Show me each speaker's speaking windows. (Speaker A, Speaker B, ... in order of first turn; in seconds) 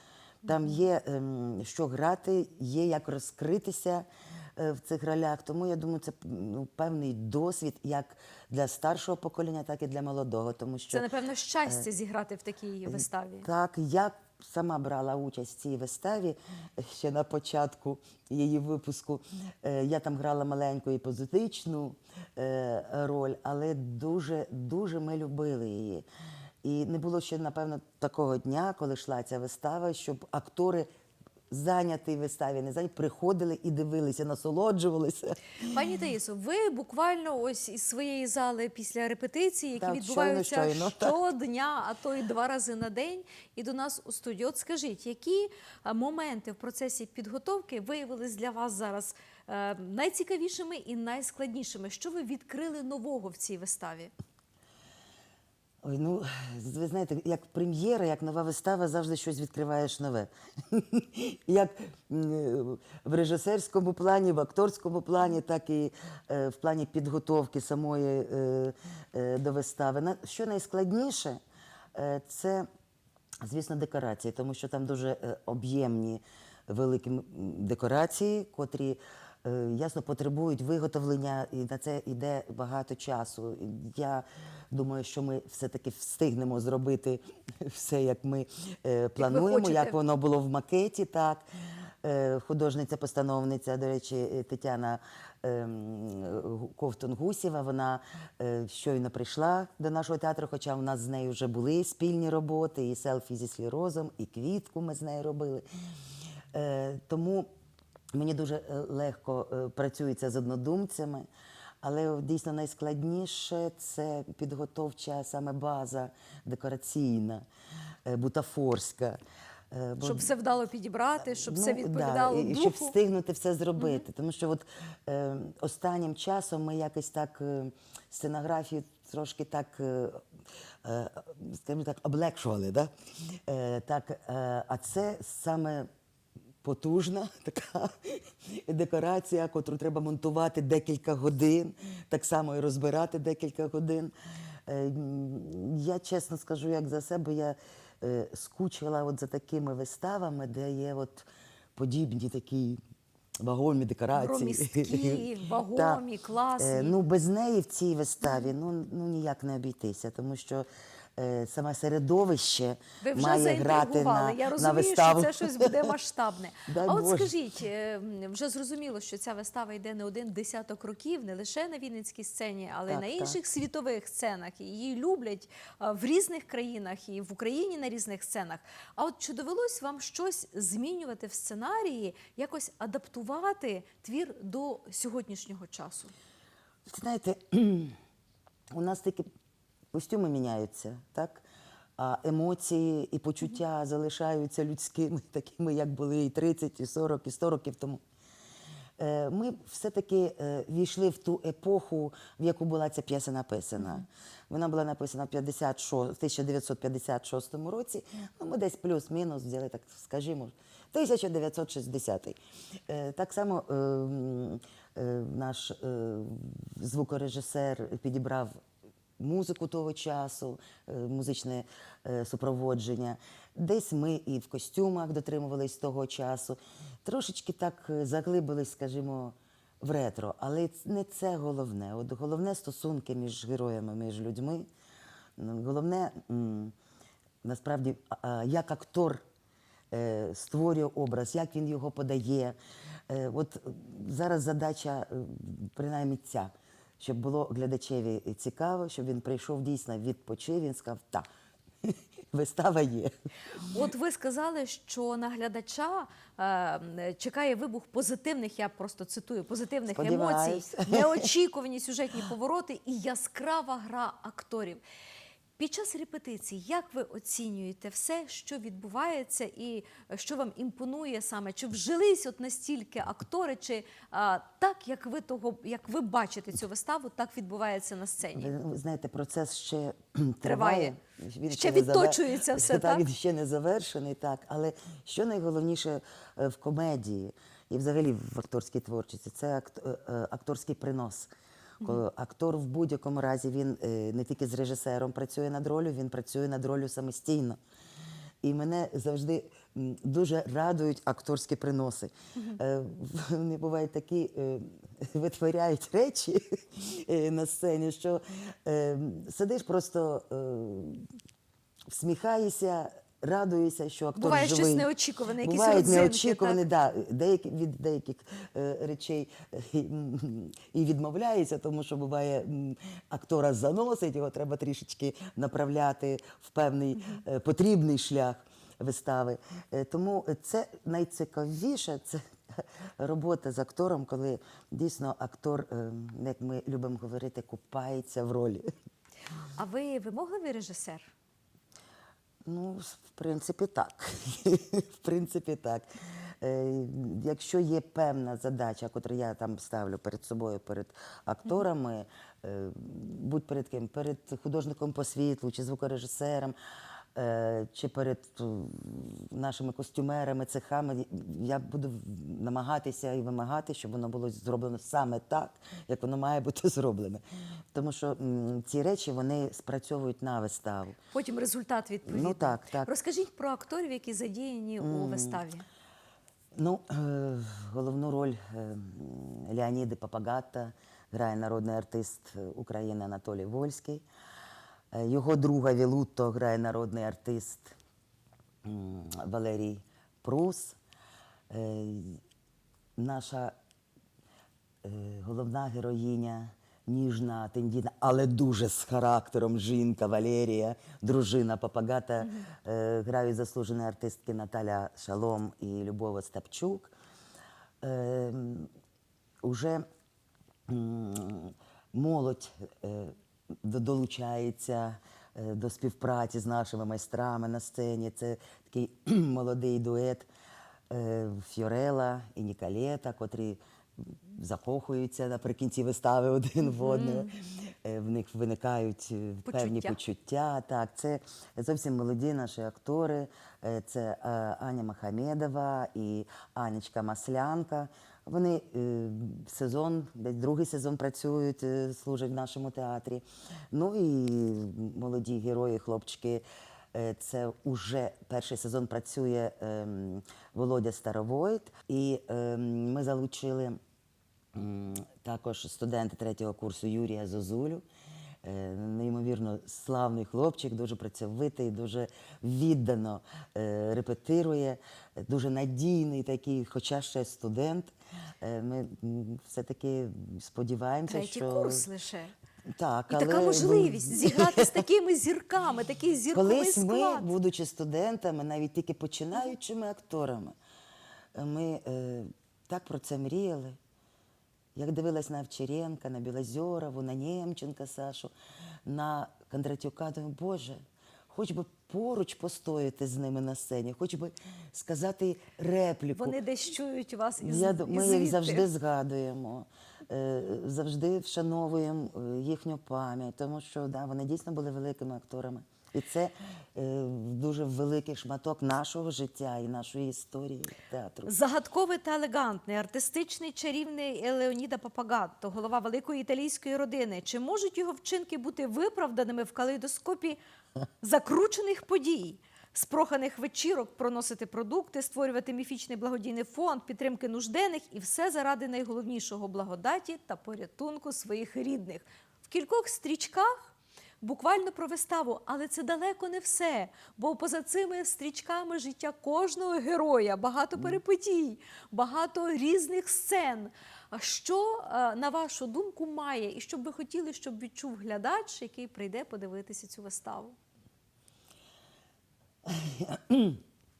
Speaker A: 0.4-11.1, 12.9-26.1, 26.6-30.9, 31.5-35.4, 39.8-41.2, 55.8-71.4, 71.9-72.7, 73.4-91.5, 92.0-105.6, 106.5-107.5, 108.1-111.2, 111.8-117.5, 118.1-119.2, 119.7-120.3, 121.2-130.2, 130.8-135.9, 136.6-144.1, 144.7-152.8, 153.4-156.0, 156.6-165.9, 166.7-167.3, 172.9-173.4, 186.9-188.0, 188.7-189.3, 189.9-191.4, 192.0-198.0, 199.0-212.4, 212.9-218.6, 219.2-234.7, 235.4-236.7, 237.4-239.2, 239.9-242.6, 243.1-251.3, 251.8-253.7, 259.9-261.3, 278.3-297.6, 298.4-311.1, 311.9-314.9, 315.4-338.7, 342.4-345.9, 346.4-356.6, 357.1-367.2, 367.7-371.0, 372.1-372.9, 374.8-375.4, 376.6-384.1, 384.9-387.8, 388.6-390.8, 391.5-392.2, 393.0-393.5, 394.8-406.9, 407.8-408.7, 409.4-409.8, 410.7-420.3, 420.9-453.8, 454.5-457.8, 458.4-471.9, 472.7-474.8, 476.3-480.6, 481.3-483.8, 484.8-488.3, 488.8-496.4, 497.4-511.3, 552.6-553.6
Speaker B: 10.9-13.5, 35.7-54.1, 89.2-90.0, 120.0-122.9, 154.2-157.0, 163.0-186.1, 253.7-264.8, 265.6-278.5, 280.4-280.9, 281.5-283.1, 314.2-316.6, 339.6-341.1, 371.1-375.7, 426.7-427.3, 429.4-430.0, 471.1-472.3, 473.1-477.3, 496.1-498.7, 511.3-520.4, 521.0-550.5